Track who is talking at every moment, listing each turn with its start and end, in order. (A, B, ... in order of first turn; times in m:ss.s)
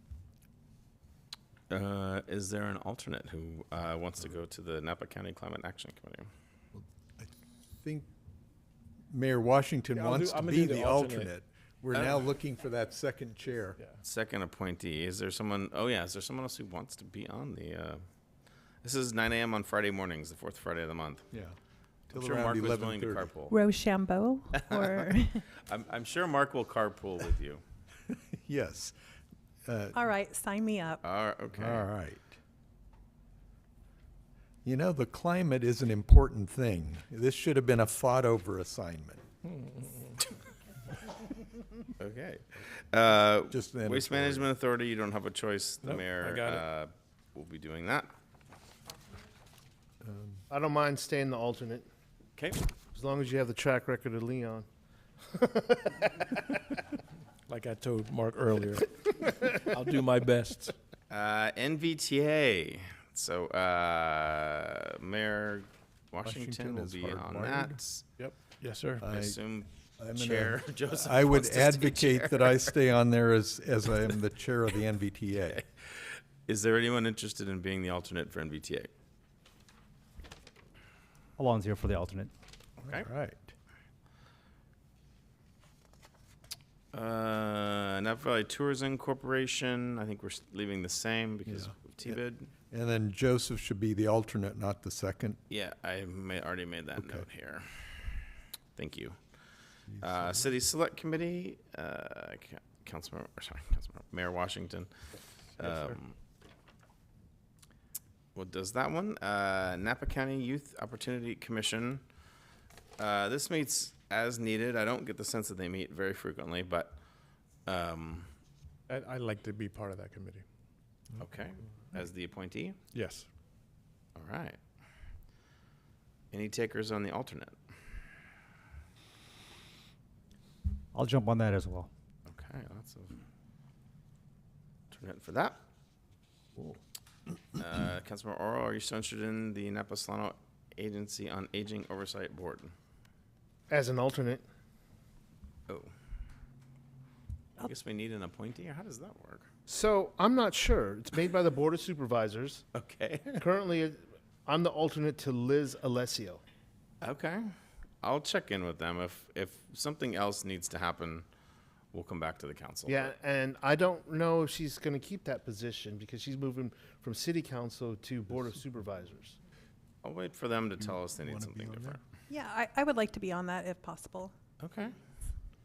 0:01.7-0:06.3 A
0:06.7-0:08.1 B
0:09.1-0:13.8 B
0:10.0-0:11.3 C
0:11.9-0:12.2 A
0:14.0-0:18.0 A
0:18.8-0:21.2 A
0:21.3-0:21.6 B
0:22.1-0:23.3 B
0:22.1-0:23.6 A
0:23.5-0:25.4 D
0:24.5-0:25.1 A
0:25.6-0:27.6 A
0:28.1-0:29.0 B
0:29.7-0:30.0 B
0:29.9-0:31.0 D
0:31.0-0:31.9 A
0:31.6-0:32.4 B
0:34.6-0:39.2 B
0:42.0-0:48.1 A
0:43.5-0:44.5 B
0:45.8-0:46.6 C
0:50.0-0:50.4 B
0:50.5-0:51.9 E
0:52.4-0:52.6 A
0:53.0-0:54.7 E
0:55.3-0:56.4 E
0:57.5-1:00.8 C
1:01.1-1:08.1 A
1:06.2-1:07.8 B
1:08.2-1:09.0 C
1:09.0-1:09.4 B
1:09.0-1:12.7 A
1:10.0-1:15.6 B
1:15.5-1:18.9 A
1:21.4-1:22.3 F
1:22.8-1:23.1 A
1:22.9-1:23.5 B
1:26.9-1:32.5 A
1:31.5-1:32.2 B
1:32.7-1:35.4 B
1:35.5-1:37.7 A
1:37.0-1:37.2 B
1:38.8-1:39.2 A
1:39.9-1:40.5 B
1:40.0-1:44.9 A
1:45.6-1:46.2 A
1:48.4-1:52.0 A
1:53.0-1:57.0 A
1:57.7-1:58.3 A
1:58.9-2:00.4 C
2:01.2-2:02.8 A
2:02.9-2:03.3 C
2:04.2-2:04.6 A
2:06.3-2:07.6 A
2:10.9-2:11.9 F
2:12.3-2:13.2 A
2:14.9-2:15.6 A
2:17.6-2:22.8 A
2:23.7-2:24.4 E
2:27.6-2:29.5 A
2:29.7-2:32.6 E
2:32.7-2:33.4 A
2:33.4-2:36.4 E
2:37.0-2:41.3 A
2:41.9-2:43.1 A
2:42.9-2:49.4 E
2:50.0-2:52.0 A
2:50.8-2:52.0 B
2:52.3-2:54.3 D
2:54.6-2:55.0 A